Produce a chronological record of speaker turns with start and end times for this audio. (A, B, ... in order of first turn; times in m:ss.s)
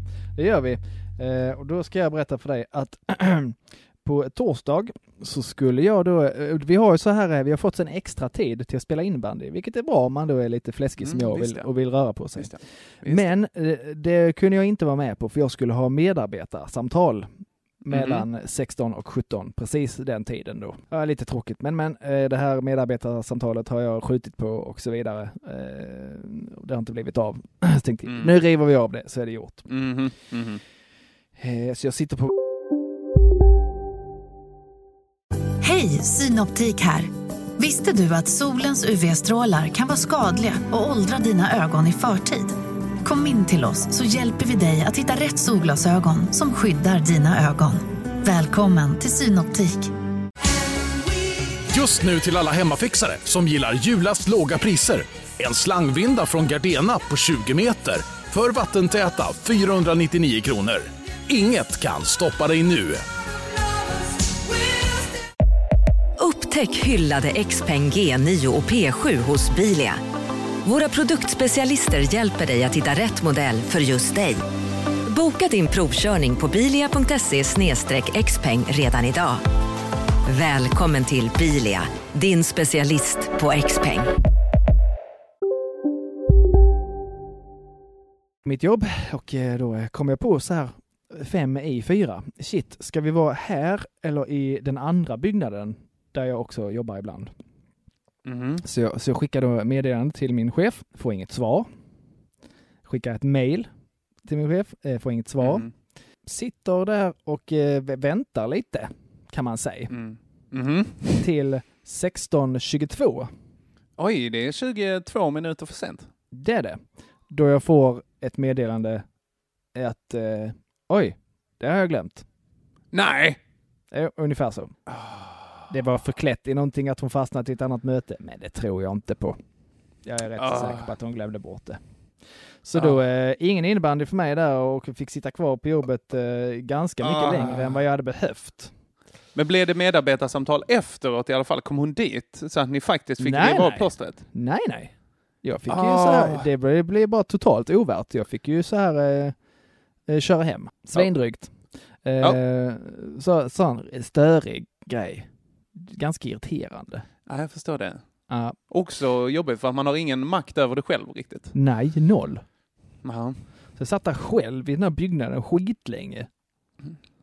0:00.4-0:12.5 A
0:11.0-0:11.7 B
0:12.4-0:13.3 B
0:13.0-0:17.3 A
0:17.8-0:18.2 B
0:17.9-0:29.7 A
0:28.1-0:28.4 B
0:29.7-0:30.6 B
0:31.4-0:32.3 A
0:35.6-0:49.9 C
0:51.7-1:03.0 D
1:06.2-1:10.0 E
1:10.6-1:14.4 E
1:15.1-1:19.4 E
1:20.3-1:24.1 E
1:28.4-1:37.3 A
1:38.2-1:38.6 B
1:38.6-1:41.7 A
1:42.9-1:43.7 A
1:44.2-1:45.7 A
1:45.4-1:45.7 B
1:46.3-1:49.9 A
1:49.9-1:51.2 B
1:51.2-1:53.3 A
1:54.0-1:56.1 B
1:56.3-1:59.0 A
1:59.7-2:02.2 A
2:02.9-2:03.4 B
2:03.9-2:04.7 A
2:04.9-2:05.6 B
2:05.7-2:09.4 A
2:10.0-2:11.8 A
2:10.4-2:10.9 B
2:12.6-2:18.7 A
2:17.0-2:17.8 B
2:19.4-2:24.2 B
2:23.2-2:29.4 A
2:25.7-2:26.5 B
2:30.1-2:31.5 A
2:32.0-2:37.0 A
2:37.3-2:38.0 B
2:38.3-2:38.6 A
2:38.7-2:41.5 B
2:41.5-2:42.4 A
2:43.0-2:43.4 B
2:43.8-2:46.3 A